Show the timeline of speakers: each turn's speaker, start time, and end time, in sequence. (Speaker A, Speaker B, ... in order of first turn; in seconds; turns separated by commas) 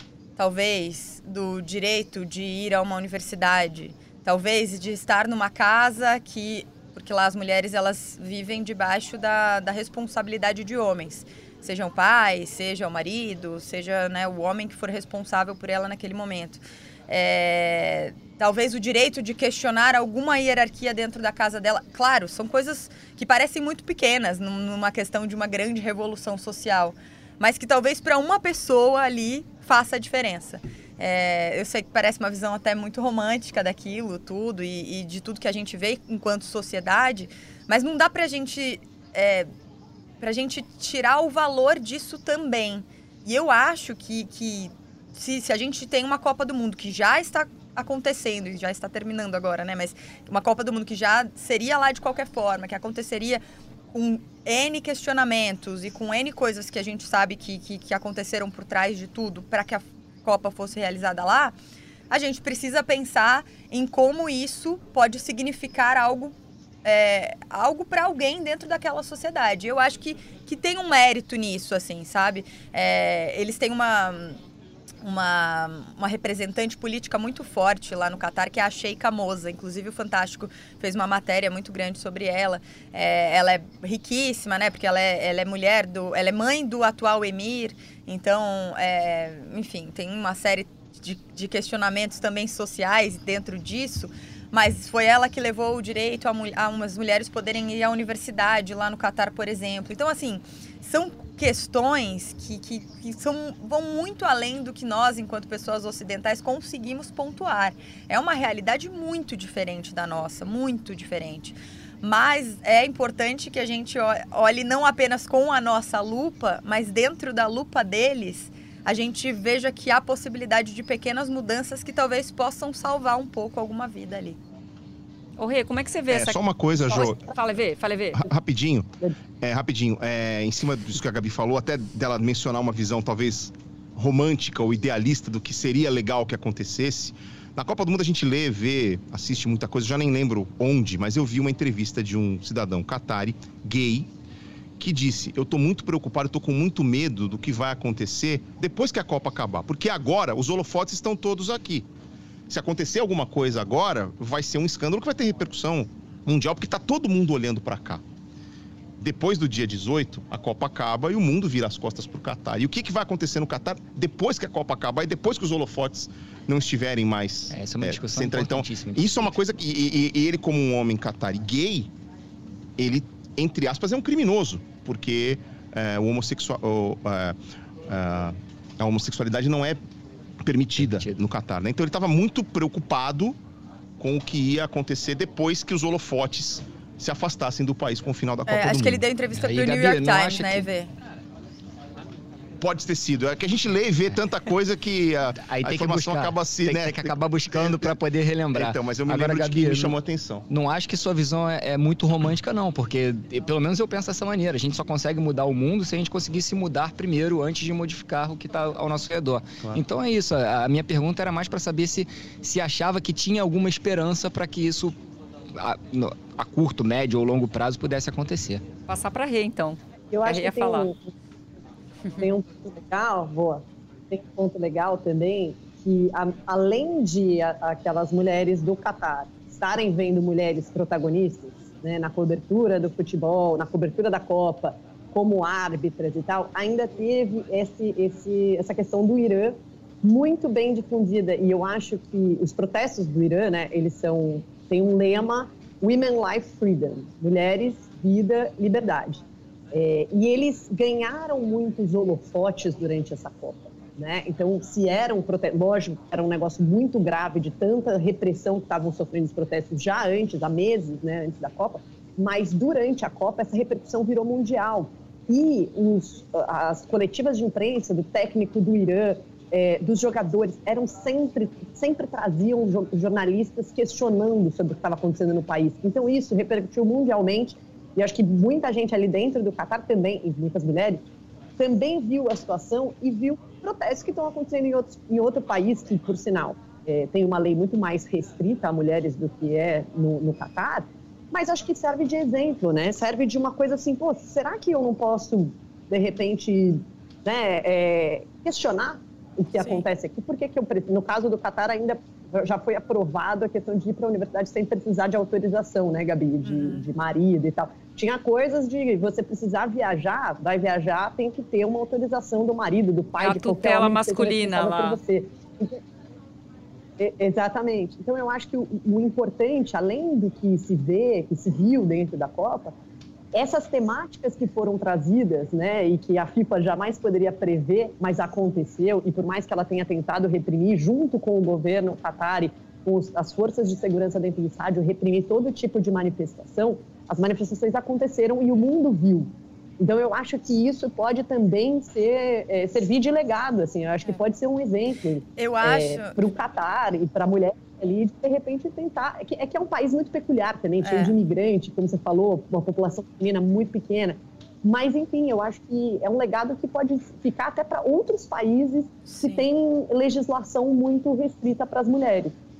Speaker A: 0.4-39.5, Speaker A: 40.2-53.4, Speaker A: 53.9-61.5, Speaker A: 62.1-74.4, Speaker A: 75.0-124.4, Speaker B: 125.4-128.2, Speaker C: 126.1-127.2, Speaker C: 128.2-144.1, Speaker C: 144.8-151.9, Speaker C: 152.5-158.0, Speaker C: 159.0-171.9, Speaker D: 167.5-169.3, Speaker C: 172.8-177.3, Speaker C: 177.9-179.8, Speaker C: 180.4-183.4, Speaker D: 180.8-181.2, Speaker C: 184.0-189.0, Speaker A: 188.5-190.9, Speaker D: 189.3-190.7, Speaker C: 192.6-198.0, Speaker D: 195.4-199.9, Speaker C: 198.5-200.5, Speaker D: 200.5-214.9, Speaker D: 215.5-218.6, Speaker B: 218.9-220.9, Speaker E: 220.1-221.1, Speaker E: 222.2-281.0, Speaker E: 281.6-315.8, Speaker A: 299.6-299.8, Speaker A: 306.4-306.8, Speaker B: 313.2-315.0, Speaker E: 317.0-322.8, Speaker E: 323.3-362.4, Speaker A: 345.4-346.2, Speaker A: 350.8-351.1, Speaker A: 359.1-359.4